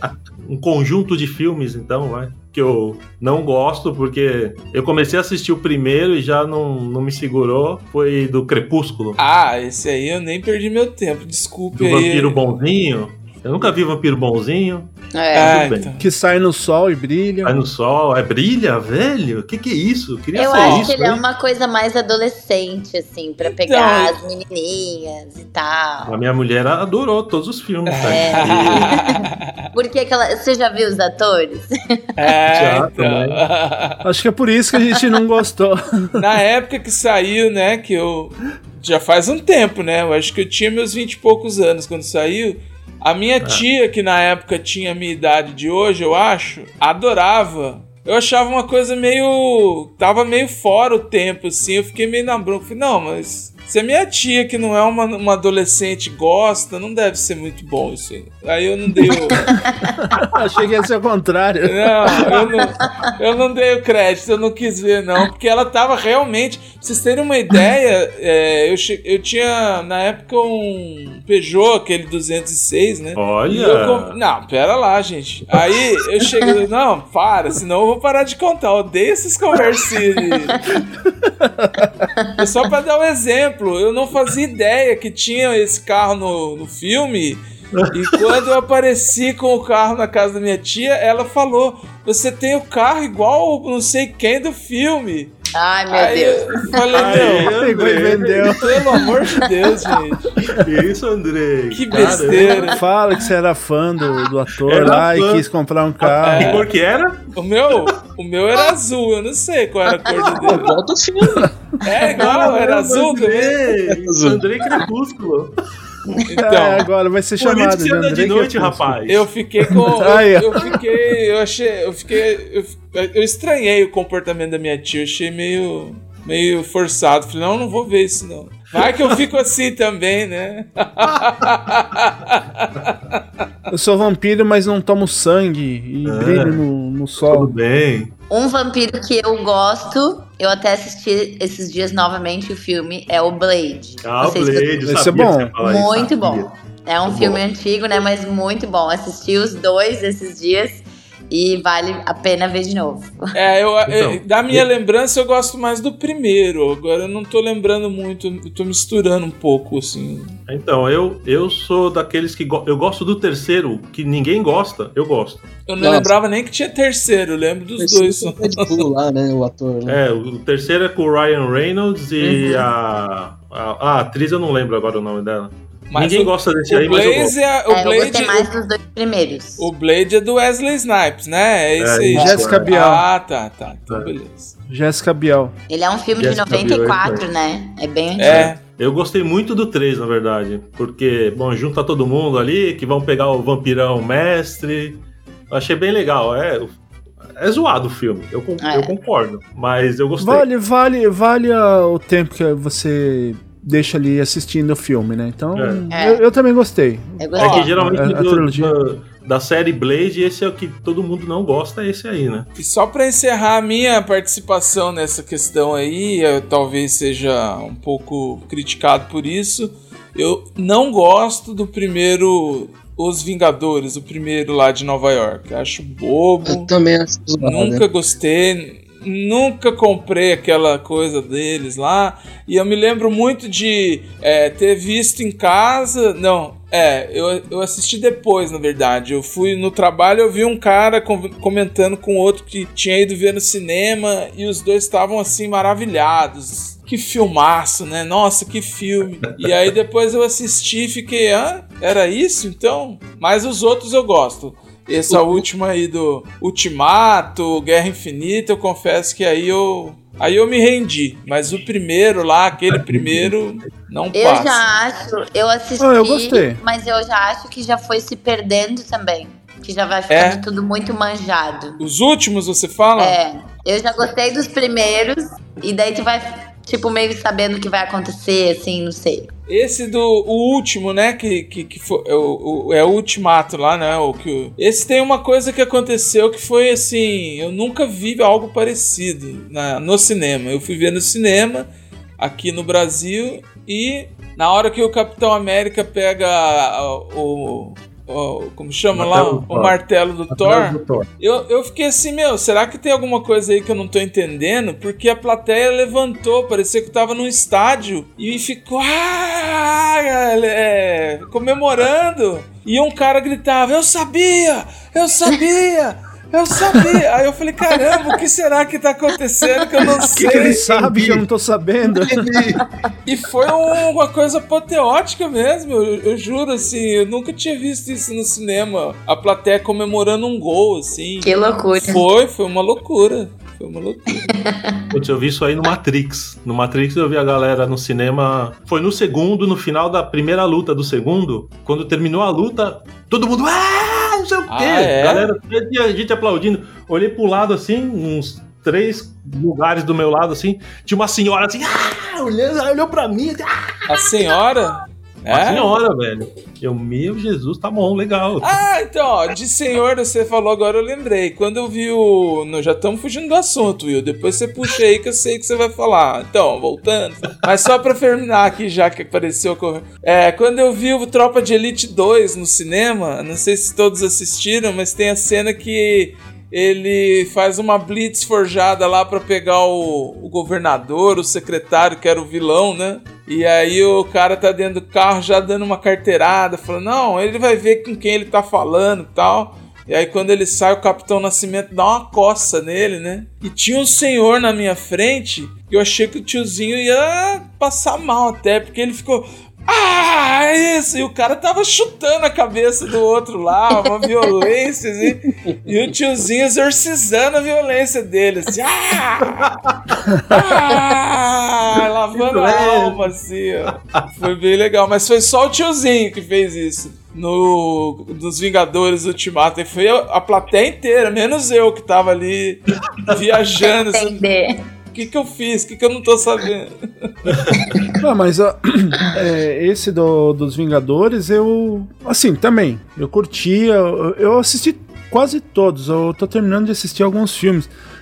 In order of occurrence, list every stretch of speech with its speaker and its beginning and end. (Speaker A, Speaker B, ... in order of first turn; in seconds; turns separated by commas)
Speaker A: 0.4-9.2, Speaker B: 9.2-12.4, Speaker A: 11.7-15.9, Speaker C: 15.2-15.6, Speaker B: 15.3-16.0, Speaker D: 16.0-17.6, Speaker A: 17.4-21.2, Speaker C: 20.3-26.1, Speaker B: 20.6-20.9, Speaker B: 23.4-24.1, Speaker A: 26.1-29.0, Speaker B: 27.9-29.3, Speaker C: 28.0-29.2, Speaker C: 29.7-31.7, Speaker B: 32.2-34.0, Speaker A: 32.5-33.4, Speaker D: 34.0-36.2, Speaker B: 36.1-59.5, Speaker C: 59.5-59.9, Speaker D: 60.0-62.4, Speaker B: 61.6-80.6, Speaker C: 62.8-63.1, Speaker A: 73.2-74.2, Speaker D: 81.4-81.9, Speaker B: 82.4-87.4, Speaker B: 87.9-95.3, Speaker C: 95.5-96.8, Speaker B: 95.9-97.5, Speaker A: 96.9-98.9, Speaker D: 97.1-99.1, Speaker B: 98.6-100.3, Speaker A: 100.5-102.7, Speaker B: 101.7-102.8, Speaker D: 102.7-106.6, Speaker A: 104.6-105.5, Speaker A: 106.0-107.2, Speaker B: 106.2-106.6, Speaker B: 107.3-110.7, Speaker C: 110.1-110.3, Speaker E: 110.4-111.5, Speaker B: 111.8-113.6, Speaker A: 112.2-115.5, Speaker E: 113.9-114.5, Speaker B: 116.2-116.9, Speaker D: 116.4-119.0, Speaker A: 117.4-119.3, Speaker B: 119.1-133.0, Speaker D: 119.7-120.8, Speaker D: 133.7-137.5, Speaker A: 136.1-136.6, Speaker A: 137.2-138.1, Speaker C: 138.3-144.7, Speaker A: 144.0-146.5, Speaker D: 144.8-145.5, Speaker C: 145.6-153.2, Speaker A: 147.0-147.4, Speaker B: 153.3-160.4, Speaker A: 153.9-154.7, Speaker A: 160.5-165.5, Speaker B: 165.7-168.8, Speaker E: 165.8-166.1, Speaker E: 167.8-170.0, Speaker A: 169.9-177.4, Speaker E: 172.2-172.6, Speaker B: 175.9-178.5, Speaker C: 177.7-179.7, Speaker B: 179.6-184.5, Speaker A: 181.8-182.7, Speaker D: 182.1-183.1, Speaker D: 184.7-185.5, Speaker C: 185.7-188.5, Speaker A: 186.2-187.2, Speaker B: 188.2-188.6, Speaker A: 188.2-196.8, Speaker A: 197.4-200.5, Speaker C: 198.6-198.9, Speaker D: 200.2-208.8, Speaker A: 205.6-205.8, Speaker C: 205.9-206.2, Speaker C: 207.2-207.9, Speaker A: 207.4-212.5, Speaker B: 207.4-207.7, Speaker B: 212.6-226.7, Speaker E: 226.4-227.8, Speaker B: 227.4-264.6, Speaker A: 262.7-263.3, Speaker C: 264.1-271.8, Speaker D: 265.8-266.6, Speaker B: 270.1-270.4, Speaker B: 271.8-273.2, Speaker C: 273.0-279.3, Speaker B: 279.5-291.7, Speaker B: 292.2-320.6, Speaker A: 298.9-299.8, Speaker A: 300.3-301.1, Speaker C: 319.6-320.1, Speaker D: 320.1-322.3, Speaker A: 320.2-321.2, Speaker A: 322.1-322.6, Speaker B: 323.1-334.3, Speaker C: 331.2-332.0, Speaker C: 334.3-334.8, Speaker A: 334.9-354.1, Speaker B: 344.5-345.3, Speaker B: 353.9-355.8, Speaker A: 355.3-358.6, Speaker B: 358.4-409.5, Speaker E: 405.2-405.8, Speaker A: 409.4-410.0, Speaker B: 410.3-424.2, Speaker A: 412.1-413.1, Speaker A: 413.8-414.0, Speaker C: 423.9-424.5, Speaker B: 424.9-427.1, Speaker A: 427.4-427.6, Speaker C: 427.7-427.9, Speaker D: 428.0-437.7